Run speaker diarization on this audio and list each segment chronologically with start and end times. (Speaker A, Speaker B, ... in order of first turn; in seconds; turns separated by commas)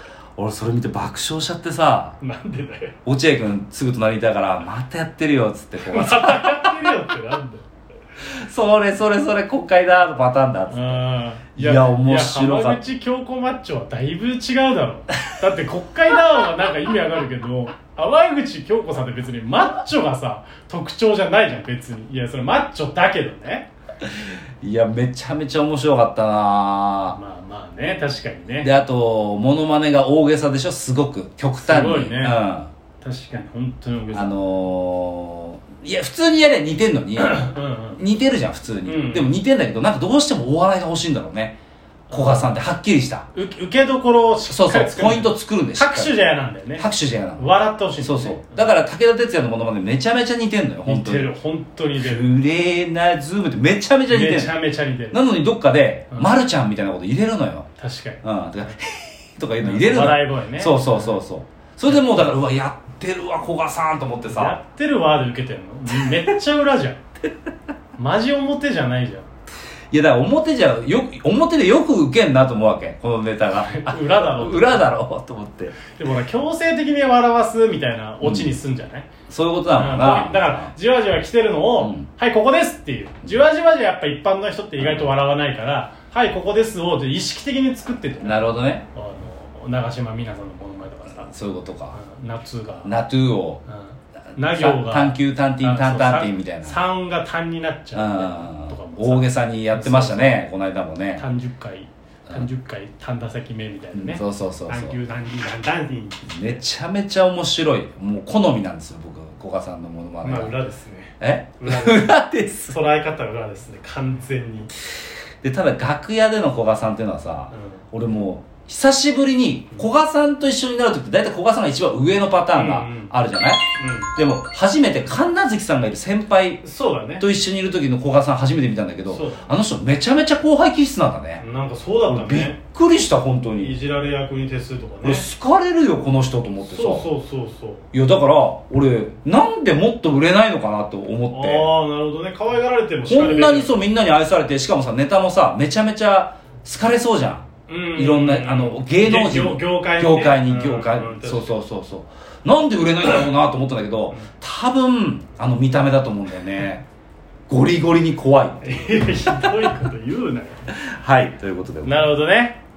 Speaker A: 0.3-2.1, Speaker B: 2.2-3.0, Speaker A: 3.0-6.8, Speaker B: 5.8-7.6, Speaker A: 8.2-12.8, Speaker B: 10.7-23.7, Speaker A: 24.0-27.2, Speaker B: 27.1-28.7, Speaker A: 28.6-32.7, Speaker B: 31.6-32.4, Speaker B: 33.0-34.4, Speaker A: 34.1-41.6, Speaker B: 37.2-38.0, Speaker B: 38.9-39.3, Speaker B: 42.1-42.6, Speaker A: 42.1-43.3, Speaker B: 43.3-48.7, Speaker A: 44.5-46.1, Speaker A: 46.8-51.3, Speaker B: 50.9-52.3, Speaker A: 52.0-54.6, Speaker B: 54.1-55.2, Speaker A: 55.1-57.7, Speaker B: 57.8-58.7, Speaker A: 58.2-64.6, Speaker B: 59.6-61.2, Speaker B: 61.9-62.2, Speaker B: 64.3-67.0, Speaker B: 68.0-69.3, Speaker A: 69.9-75.8, Speaker B: 73.5-74.9, Speaker B: 75.9-79.1, Speaker A: 78.2-78.5, Speaker A: 79.3-80.7, Speaker B: 79.7-91.3, Speaker A: 81.8-82.1, Speaker A: 84.8-85.2, Speaker A: 88.2-88.8, Speaker A: 91.2-92.0, Speaker B: 91.9-92.9, Speaker A: 92.8-93.6, Speaker B: 93.7-100.4, Speaker A: 94.3-96.8, Speaker A: 97.9-101.2, Speaker B: 101.2-106.5, Speaker A: 103.9-105.0, Speaker A: 106.2-110.5, Speaker B: 110.2-114.7, Speaker A: 111.2-112.8, Speaker A: 115.4-126.6, Speaker B: 117.5-117.8, Speaker B: 122.5-123.1, Speaker B: 123.8-124.1, Speaker B: 126.6-127.2, Speaker A: 127.2-131.4, Speaker B: 129.1-129.5, Speaker B: 131.4-132.6, Speaker A: 132.1-133.8, Speaker B: 133.6-135.2, Speaker A: 135.0-137.1, Speaker B: 136.6-137.9, Speaker A: 137.9-141.7, Speaker B: 141.3-143.8, Speaker A: 143.1-156.8, Speaker B: 147.7-151.6, Speaker A: 157.5-159.7, Speaker B: 158.6-160.7, Speaker A: 160.7-162.2, Speaker B: 161.8-162.6